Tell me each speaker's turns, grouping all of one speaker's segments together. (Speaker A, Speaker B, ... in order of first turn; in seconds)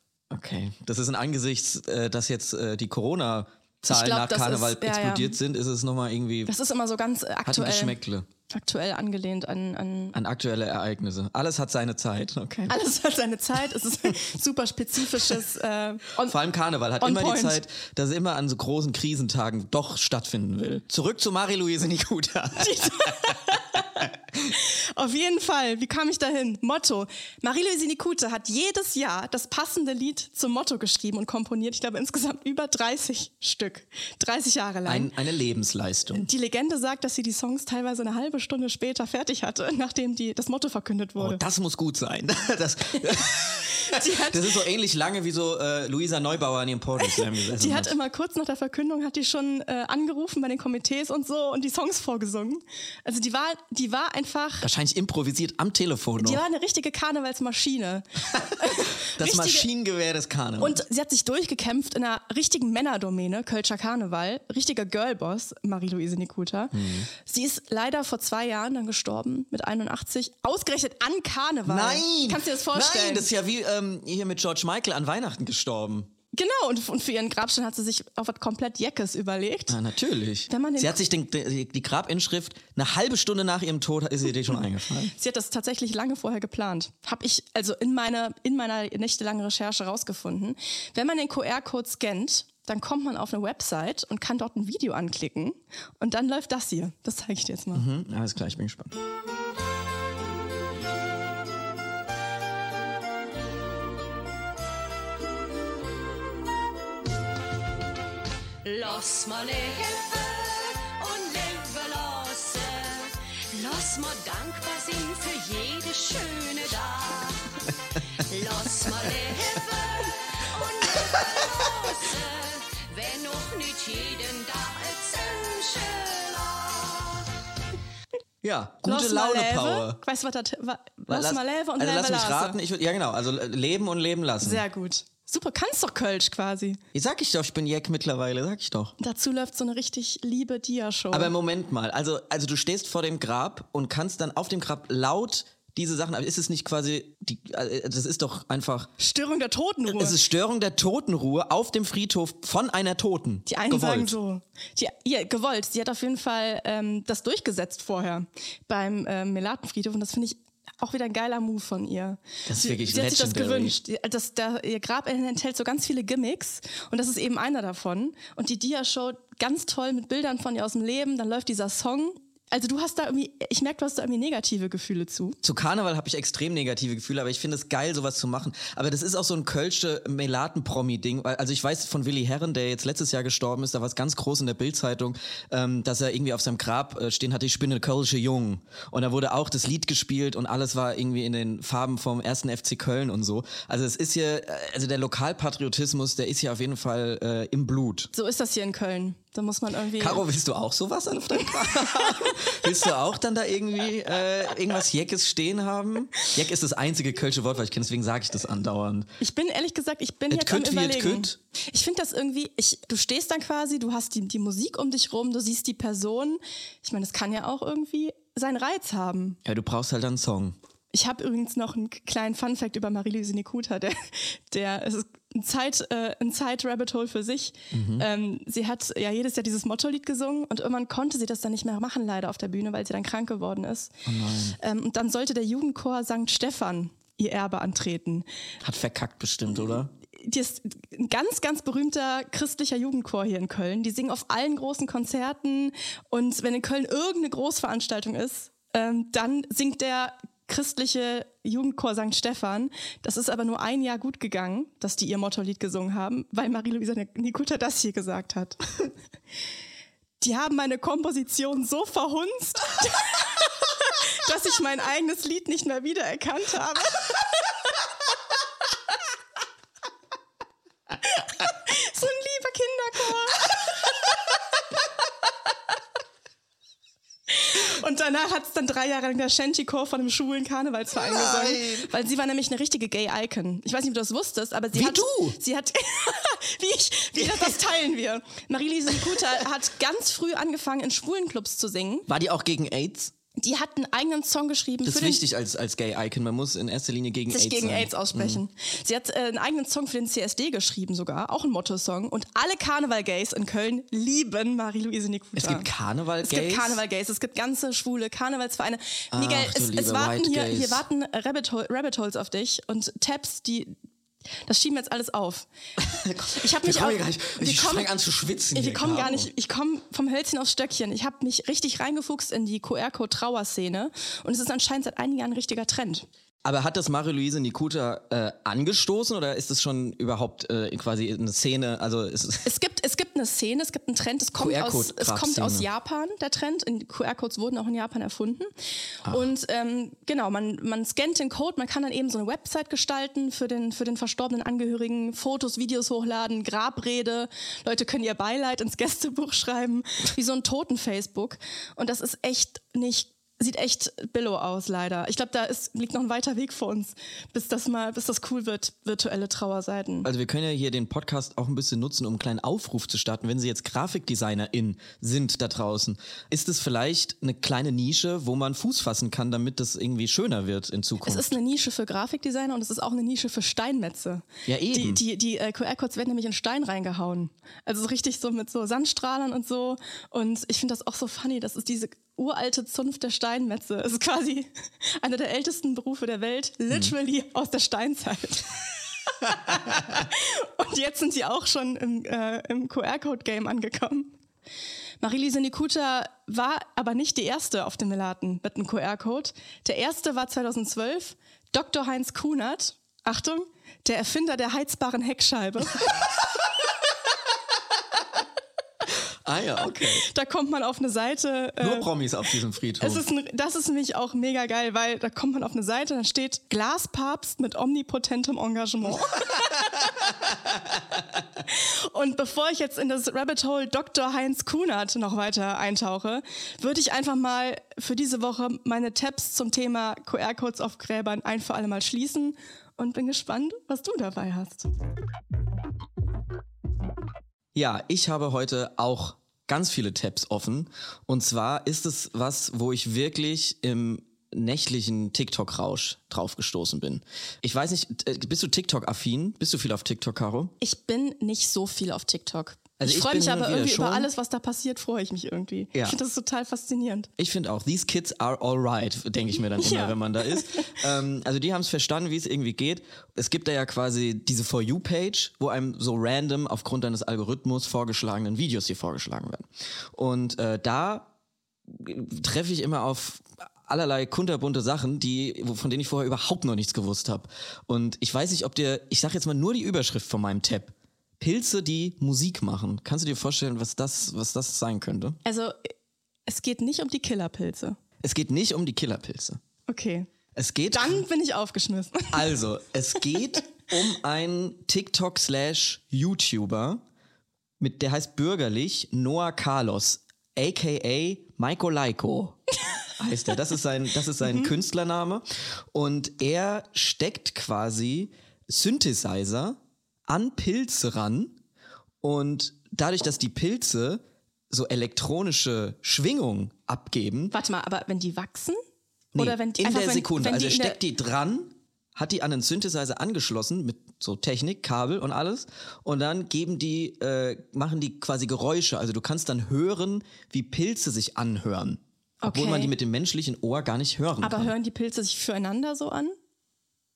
Speaker A: 0.3-6.5, 7.5-8.3, 10.1-12.8, 16.2-23.3, 34.9-36.3, 41.2-48.0, 54.6-56.4, 58.3-60.8, 66.7-67.1, 71.7-76.1, 79.7-85.1, 97.7-99.0, 128.4-130.0, 131.1-134.7, 136.9-138.9, 141.1-148.9, 149.9-154.2, 162.5-163.8, 175.4-198.1, 200.0-209.1, 210.3-211.4, 219.5-220.6, 227.7-228.1, 234.1-234.6, 238.6-239.9, 281.0-281.9, 284.7-285.4, 287.2-287.6, 292.1-293.1, 294.9-298.4, 305.4-306.8, 309.1-310.8, 315.8-319.3, 326.4-332.5, 334.4-335.7, 360.0-371.4, 374.5-375.0, 409.2-410.1, 411.6-413.1, 437.5-450.6, 452.8-454.1, 457.2-471.1, 471.7-485.2, 488.0-489.4, 490.4-491.1, 492.1-496.8, 497.6-502.4, 503.0-511.4, 512.0-517.4, 519.1-534.5
Speaker B: 3.9-5.4, 6.5-10.2, 12.7-16.4, 17.0-17.6, 22.6-35.1, 36.1-41.4, 43.7-44.5, 47.0-54.7, 56.2-59.7, 60.6-73.3, 76.3-79.8, 80.5-81.0, 85.1-97.8, 128.8-132.6, 134.4-136.8, 139.0-141.3, 149.0-150.2, 153.5-175.4, 198.1-200.2, 209.2-219.4, 220.9-234.0, 234.6-238.3, 240.2-258.9, 260.2-267.3, 271.0-273.5, 277.3-292.1, 293.4-295.2, 297.3-305.7, 306.2-313.8, 314.5-315.5, 316.3-317.9, 318.5-326.1, 332.4-338.5, 339.1-360.1, 371.0-388.6, 389.2-394.2, 395.0-406.0, 409.7-411.9, 412.8-419.9, 421.4-434.7, 450.6-457.1, 459.6-460.8, 485.2-485.7, 486.3-487.8, 489.7-490.1, 490.7-492.3, 504.2-504.5, 517.3-518.6, 519.1-520.8, 532.2-532.7, 534.2-536.1
Speaker C: 108.6-127.3